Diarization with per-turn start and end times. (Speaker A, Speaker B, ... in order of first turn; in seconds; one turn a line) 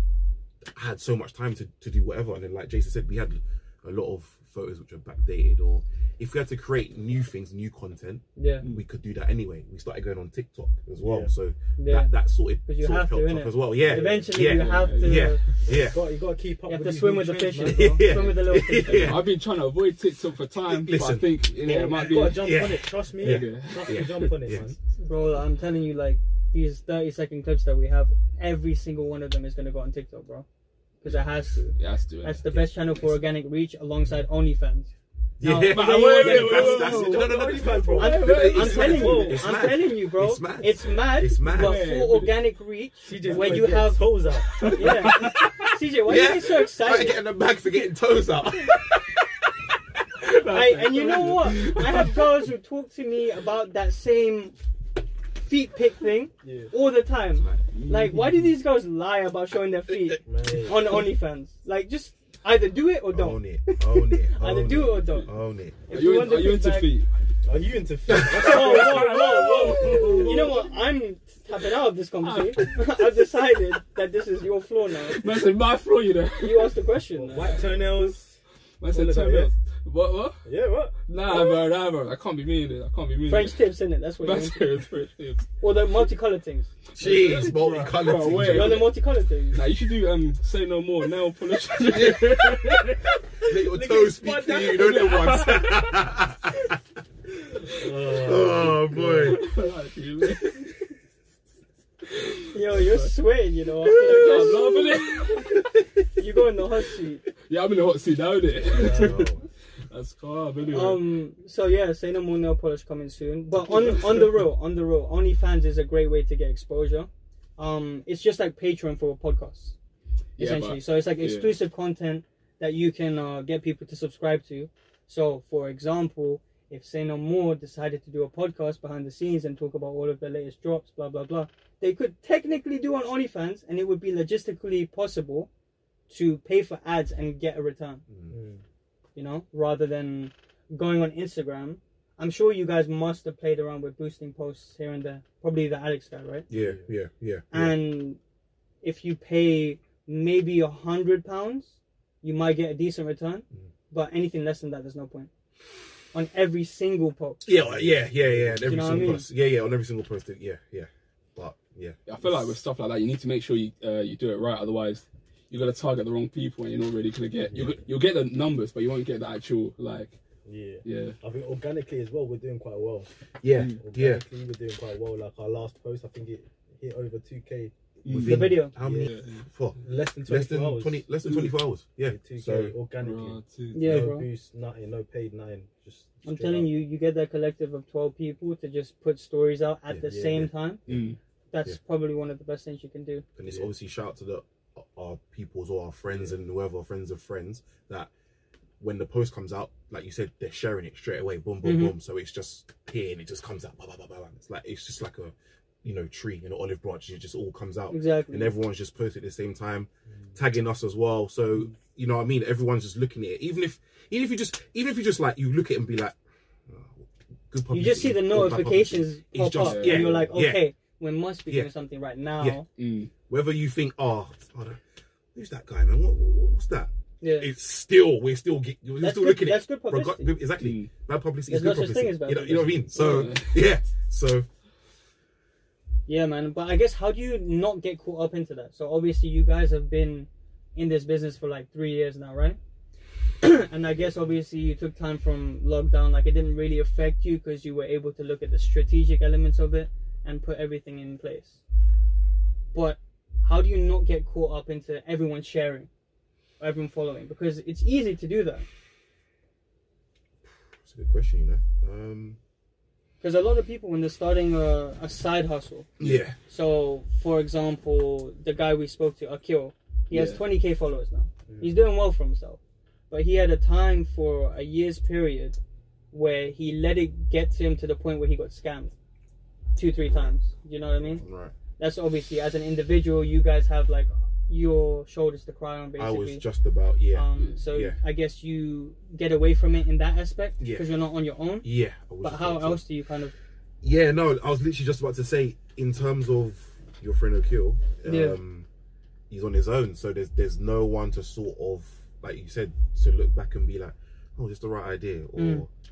Speaker A: 0.7-16.0
Speaker B: 8.4-8.7
Speaker C: 11.0-11.3
Speaker B: 11.8-12.1
Speaker B: 12.6-15.4
Speaker C: 13.8-14.3
Speaker D: 14.4-15.4
Speaker C: 15.6-18.4
Speaker B: 16.7-19.2
Speaker A: 17.6-19.3
Speaker D: 18.9-24.4
Speaker A: 20.6-24.7
Speaker C: 21.6-24.8
Speaker B: 25.0-30.4
Speaker B: 31.0-37.2
Speaker D: 31.8-32.4
Speaker A: 35.4-41.9
Speaker D: 35.7-37.3
Speaker C: 36.8-39.5
Speaker D: 37.9-39.3
Speaker B: 37.9-44.2
Speaker D: 41.4-42.4
Speaker C: 43.0-44.9
Speaker D: 43.2-43.6
Speaker D: 44.5-45.5
Speaker B: 44.7-47.2
Speaker A: 45.2-49.4
Speaker D: 50.2-52.3
Speaker B: 50.5-54.6
Speaker B: 55.4-65.3
Speaker C: 56.4-56.7
Speaker A: 57.4-57.6
Speaker D: 57.7-58.5
Speaker A: 59.9-60.2
Speaker C: 60.2-61.0
Speaker A: 63.1-65.8
Speaker B: 65.9-66.9
Speaker D: 65.9-67.1
Speaker C: 67.4-70.6
Speaker D: 68.2-70.7
Speaker B: 68.3-75.2
Speaker D: 72.2-73.2
Speaker D: 75.1-76.8
Speaker B: 76.4-77.6
Speaker C: 77.1-78.4
Speaker D: 78.8-80.4
Speaker C: 78.9-79.5
Speaker C: 80.4-80.9
Speaker D: 81.1-83.6
Speaker B: 83.3-84.6
Speaker D: 84.2-85.5
Speaker B: 85.6-86.7
Speaker A: 86.9-88.9
Speaker D: 87.0-88.9
Speaker B: 88.5-89.6
Speaker D: 89.5-93.1
Speaker A: 91.9-92.8
Speaker A: 93.4-96.7
Speaker C: 93.5-95.5
Speaker D: 94.6-95.9
Speaker C: 97.7-99.4
Speaker A: 98.1-99.5
Speaker D: 99.2-100.7
Speaker D: 102.1-103.1
Speaker B: 102.5-104.9
Speaker D: 103.8-105.8
Speaker B: 106.2-107.2
Speaker D: 107.5-109.3
Speaker C: 108.7-109.3
Speaker A: 108.7-109.4
Speaker D: 109.9-111.1
Speaker B: 110.7-119.7
Speaker D: 120.4-121.6
Speaker B: 120.4-135.5
Speaker B: 136.1-138.0
Speaker A: 138.1-138.4
Speaker C: 138.3-138.6
Speaker B: 139.1-146.4
Speaker A: 146.5-147.8
Speaker C: 146.5-146.9
Speaker B: 147.5-148.2
Speaker B: 148.8-155.3
Speaker B: 156.1-157.5
Speaker A: 157.4-162.0
Speaker C: 157.6-159.2
Speaker B: 158.6-159.3
Speaker D: 162.1-170.2
Speaker C: 167.5-167.8
Speaker C: 170.4-173.1
Speaker D: 170.8-171.2
Speaker A: 173.4-174.2
Speaker C: 173.8-177.7
Speaker D: 178.1-179.5
Speaker A: 178.1-182.7
Speaker B: 178.2-178.7
Speaker C: 178.7-179.1
Speaker C: 179.8-181.3
Speaker C: 182.1-186.7
Speaker D: 183.0-184.1
Speaker B: 183.7-184.2
Speaker B: 186.2-190.8
Speaker A: 189.9-190.3
Speaker C: 190.1-190.5
Speaker D: 190.9-191.2
Speaker B: 191.5-193.2
Speaker A: 193.4-198.1
Speaker C: 196.1-196.4
Speaker A: 198.8-216.2
Speaker B: 201.6-201.9
Speaker B: 207.9-208.5
Speaker A: 216.7-220.7
Speaker B: 217.7-222.7
Speaker D: 219.6-220.1
Speaker C: 220.0-220.3
Speaker D: 222.8-223.1
Speaker A: 223.3-224.8
Speaker A: 225.3-234.4
Speaker B: 227.2-227.5
Speaker B: 229.0-230.3
Speaker D: 230.6-230.9
Speaker B: 231.5-233.2
Speaker D: 232.9-233.7
Speaker B: 236.1-242.6
Speaker B: 243.4-251.6
Speaker B: 252.7-255.9
Speaker B: 256.6-258.7
Speaker A: 260.8-262.4
Speaker B: 263.2-265.9
Speaker A: 266.0-266.4
Speaker B: 266.5-275.6
Speaker D: 270.1-270.4
Speaker C: 271.5-271.8
Speaker B: 276.1-278.9
Speaker B: 279.8-281.2
Speaker A: 280.1-280.3
Speaker A: 281.1-281.6
Speaker B: 281.8-286.4
Speaker A: 286.0-288.0
Speaker B: 287.1-291.7
Speaker A: 290.6-290.9
Speaker A: 291.6-292.8
Speaker B: 292.2-293.4
Speaker A: 293.8-298.7
Speaker B: 298.1-298.4
Speaker A: 299.3-305.7
Speaker B: 305.4-305.6